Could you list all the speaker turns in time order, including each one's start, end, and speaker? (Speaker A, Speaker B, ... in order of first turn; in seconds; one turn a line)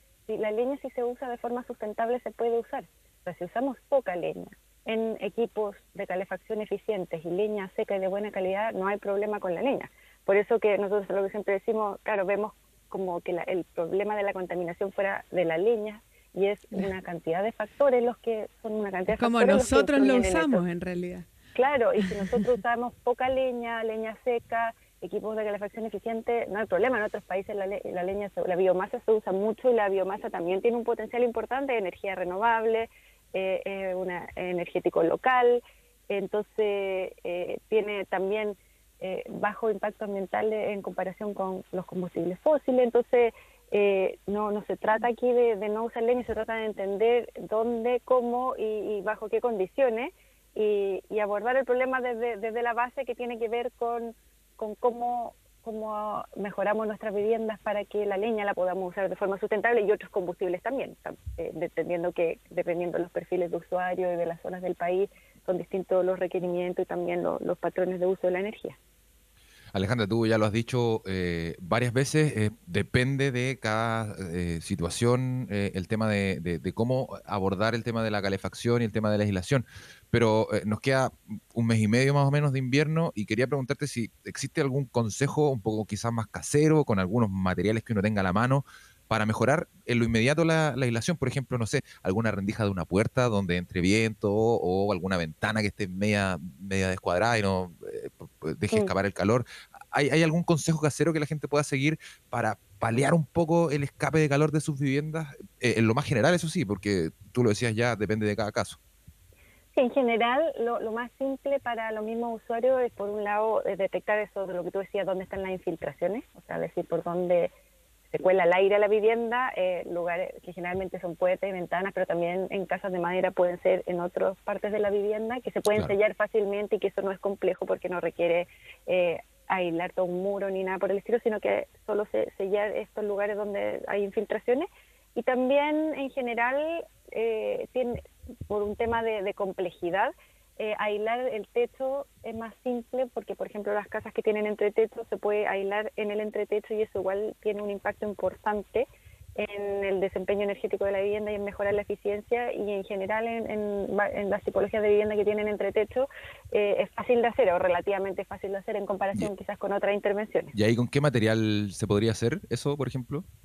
Speaker A: 0.3-20.6
Speaker B: 19.1-21.3
Speaker A: 21.6-68.8
Speaker B: 22.0-22.4
Speaker C: 69.7-108.8
Speaker A: 109.8-117.5
Speaker A: 118.1-160.5
Speaker C: 160.5-163.3